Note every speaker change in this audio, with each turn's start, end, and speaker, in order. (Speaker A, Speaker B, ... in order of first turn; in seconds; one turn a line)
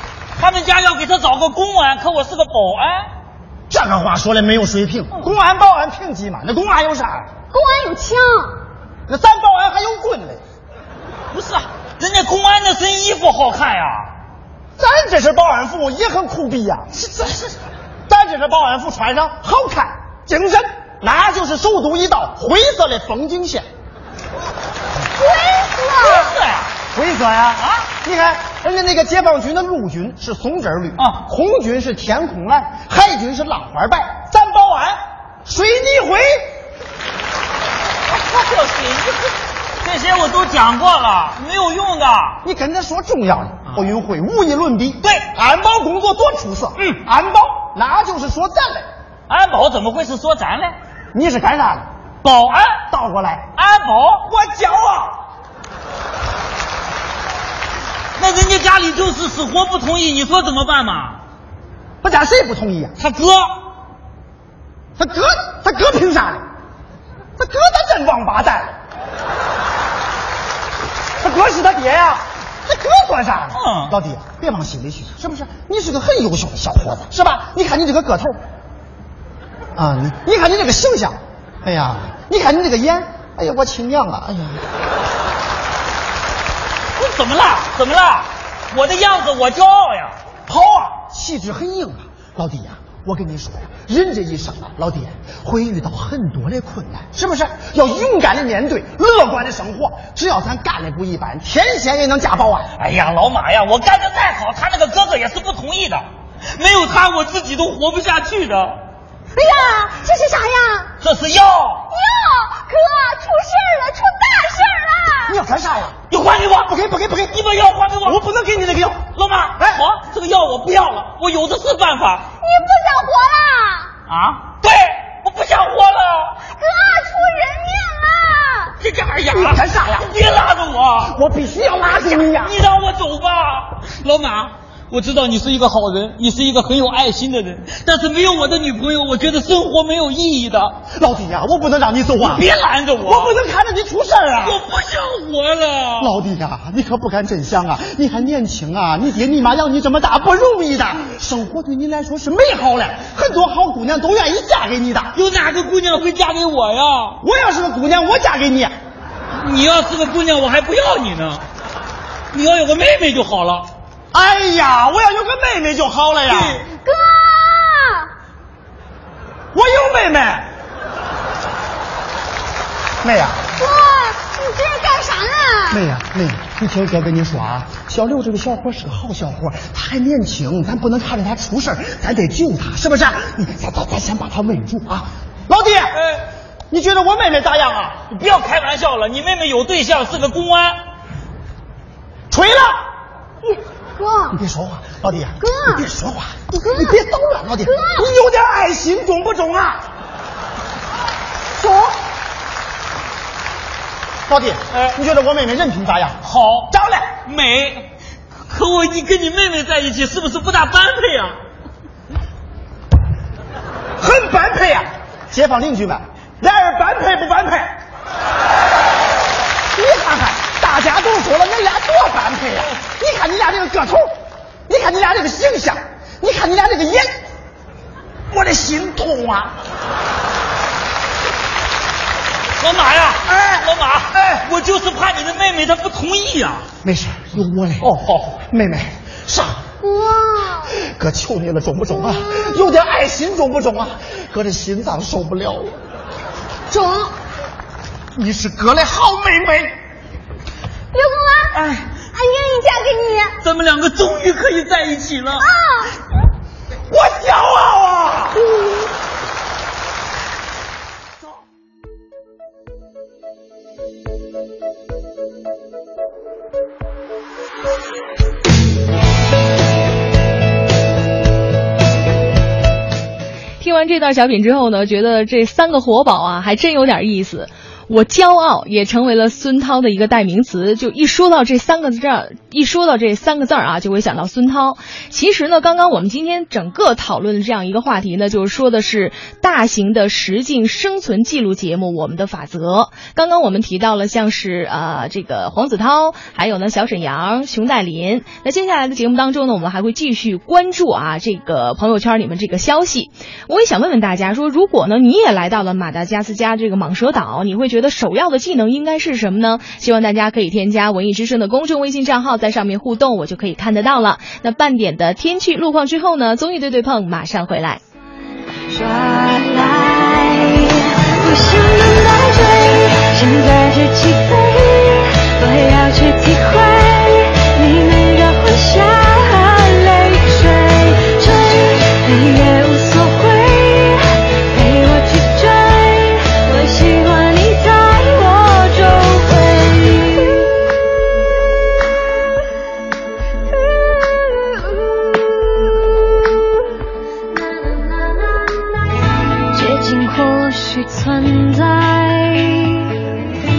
Speaker A: 0.4-3.1
Speaker B: 3.7-7.3
Speaker C: 7.5-8.5
Speaker B: 9.1-10.4
Speaker A: 11.3-14.1
Speaker B: 14.8-17.5
Speaker B: 18.1-23.7
Speaker C: 25.2-26.4
Speaker A: 26.0-26.7
Speaker B: 26.9-36.5
Speaker A: 27.6-27.8
Speaker A: 38.1-39.3
Speaker A: 39.8-42.4
Speaker B: 42.4-48.9
Speaker A: 49.3-50.8
Speaker B: 51.1-51.9
Speaker A: 52.2-52.8
Speaker B: 52.9-53.5
Speaker A: 53.6-54.3
Speaker B: 54.3-55.1
Speaker A: 58.2-61.2
Speaker B: 62.0-63.0
Speaker A: 63.0-63.5
Speaker B: 65.0-66.4
Speaker B: 67.4-68.8
Speaker B: 71.2-78.4
Speaker A: 73.5-73.9
Speaker B: 79.8-84.6
Speaker A: 87.0-90.1
Speaker B: 90.5-102.7
Speaker A: 102.8-108.8
Speaker C: 109.4-110.9
Speaker A: 111.0-111.8
Speaker C: 111.9-115.3
Speaker B: 115.2-116.0
Speaker A: 116.1-116.7
Speaker B: 116.6-117.4
Speaker A: 117.3-118.2
Speaker B: 118.0-119.1
Speaker A: 119.2-122.3
Speaker C: 122.4-123.9
Speaker A: 124.1-126.3
Speaker C: 126.5-128.8
Speaker A: 128.8-131.1
Speaker B: 129.3-130.1
Speaker B: 131.0-132.5
Speaker A: 132.4-140.8
Speaker B: 140.9-142.5
Speaker A: 142.2-143.3
Speaker B: 143.0-144.6
Speaker A: 144.4-146.1
Speaker B: 146.0-155.2
Speaker A: 155.1-157.2
Speaker B: 157.2-158.7
Speaker A: 159.4-161.4
Speaker A: 162.3-163.7
Speaker B: 164.1-166.6
Speaker A: 166.3-166.6
Speaker C: 166.7-168.1
Speaker B: 169.5-170.5
Speaker B: 173.0-173.4
Speaker C: 173.6-175.8
Speaker B: 175.7-186.0
Speaker A: 186.0-186.2
Speaker B: 186.7-188.0
Speaker A: 188.1-190.8
Speaker B: 192.3-192.8
Speaker C: 193.4-194.4
Speaker B: 194.3-199.8
Speaker C: 195.4-195.8
Speaker C: 196.7-197.0
Speaker C: 197.6-198.0
Speaker B: 204.3-206.2
Speaker A: 206.2-207.9
Speaker B: 206.7-207.1
Speaker A: 208.5-211.4
Speaker B: 214.0-217.7
Speaker B: 219.8-224.1
Speaker B: 224.7-227.1
Speaker B: 228.3-229.5
Speaker A: 232.6-236.7
Speaker B: 236.8-239.6
Speaker A: 237.8-238.3
Speaker C: 239.8-240.7
Speaker B: 240.8-245.7
Speaker C: 246.7-247.1
Speaker B: 248.1-249.7
Speaker C: 250.9-251.5
Speaker A: 251.5-251.9
Speaker C: 252.1-253.3
Speaker A: 253.4-255.5
Speaker C: 255.4-255.9
Speaker B: 256.9-258.3
Speaker C: 258.4-258.8
Speaker D: 273.6-317.8
Speaker E: 318.7-340.5
Speaker E: 347.6-348.4
Speaker E: 349.5-352.8